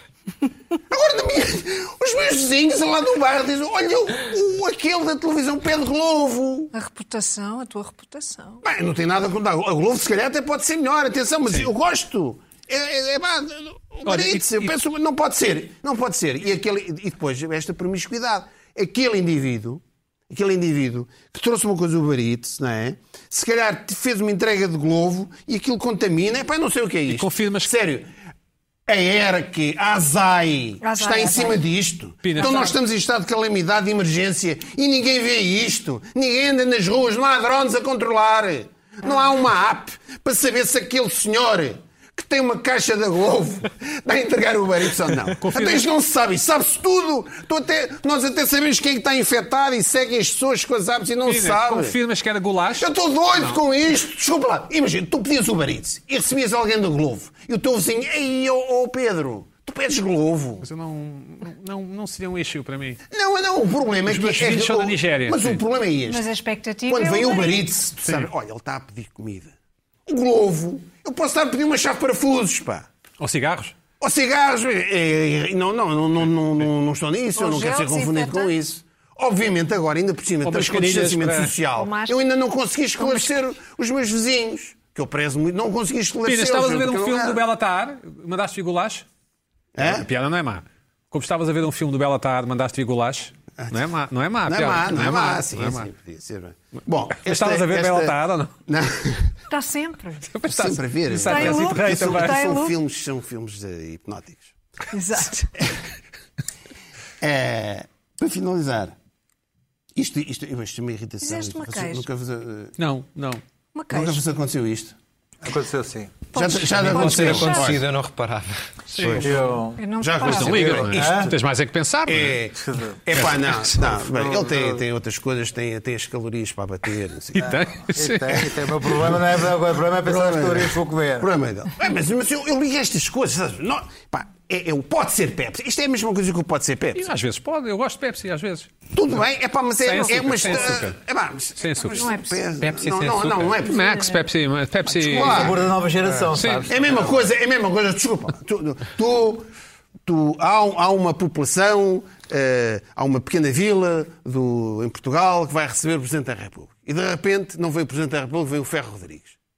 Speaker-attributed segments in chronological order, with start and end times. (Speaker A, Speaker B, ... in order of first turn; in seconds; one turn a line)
Speaker A: 0.9-6.7
Speaker B: 6.7-8.6
Speaker A: 8.6-28.1
Speaker C: 14.0-14.7
Speaker C: 27.1-27.7
Speaker A: 28.9-52.0
Speaker B: 30.8-31.6
Speaker C: 32.2-32.7
Speaker B: 32.4-32.7
Speaker C: 45.4-45.8
Speaker C: 51.2-53.6
Speaker A: 52.8-60.6
Speaker C: 60.6-63.0
Speaker A: 63.1-66.3
Speaker C: 64.0-65.6
Speaker B: 66.1-67.7
Speaker A: 66.9-69.5
Speaker A: 70.0-72.8
Speaker C: 73.2-73.7
Speaker A: 74.0-87.4
Speaker B: 77.3-78.5
Speaker C: 80.4-81.5
Speaker B: 81.7-82.2
Speaker B: 83.0-83.3
Speaker C: 86.2-89.0
Speaker A: 89.8-90.1
Speaker C: 89.8-95.9
Speaker A: 93.6-93.8
Speaker A: 94.4-98.2
Speaker C: 97.2-98.5
Speaker A: 98.7-99.3
Speaker B: 99.5-100.3
Speaker C: 100.2-102.5
Speaker A: 100.5-104.5
Speaker B: 101.2-102.7
Speaker B: 104.9-105.5
Speaker A: 107.2-108.9
Speaker A: 110.0-112.7
Speaker B: 111.2-112.0
Speaker C: 112.8-113.4
Speaker B: 113.7-114.2
Speaker A: 113.9-114.9
Speaker D: 115.4-116.2
Speaker B: 116.3-117.8
Speaker A: 116.3-117.8
Speaker E: 116.7-118.6
Speaker C: 118.9-119.2
Speaker A: 119.0-121.3
Speaker D: 119.2-119.8
Speaker B: 119.8-121.0
Speaker C: 120.2-122.4
Speaker D: 120.7-121.3
Speaker A: 122.1-127.6
Speaker D: 122.6-124.8
Speaker C: 123.1-123.7
Speaker C: 127.3-128.6
Speaker D: 127.9-131.3
Speaker A: 130.0-137.1
Speaker C: 136.9-138.7
Speaker A: 138.9-143.9
Speaker C: 139.8-141.0
Speaker C: 141.6-142.1
Speaker B: 141.9-142.4
Speaker E: 142.6-143.6
Speaker C: 143.6-145.5
Speaker B: 143.8-144.2
Speaker A: 144.9-145.7
Speaker D: 145.0-147.1
Speaker C: 146.3-146.7
Speaker A: 146.7-149.5
Speaker A: 150.1-159.3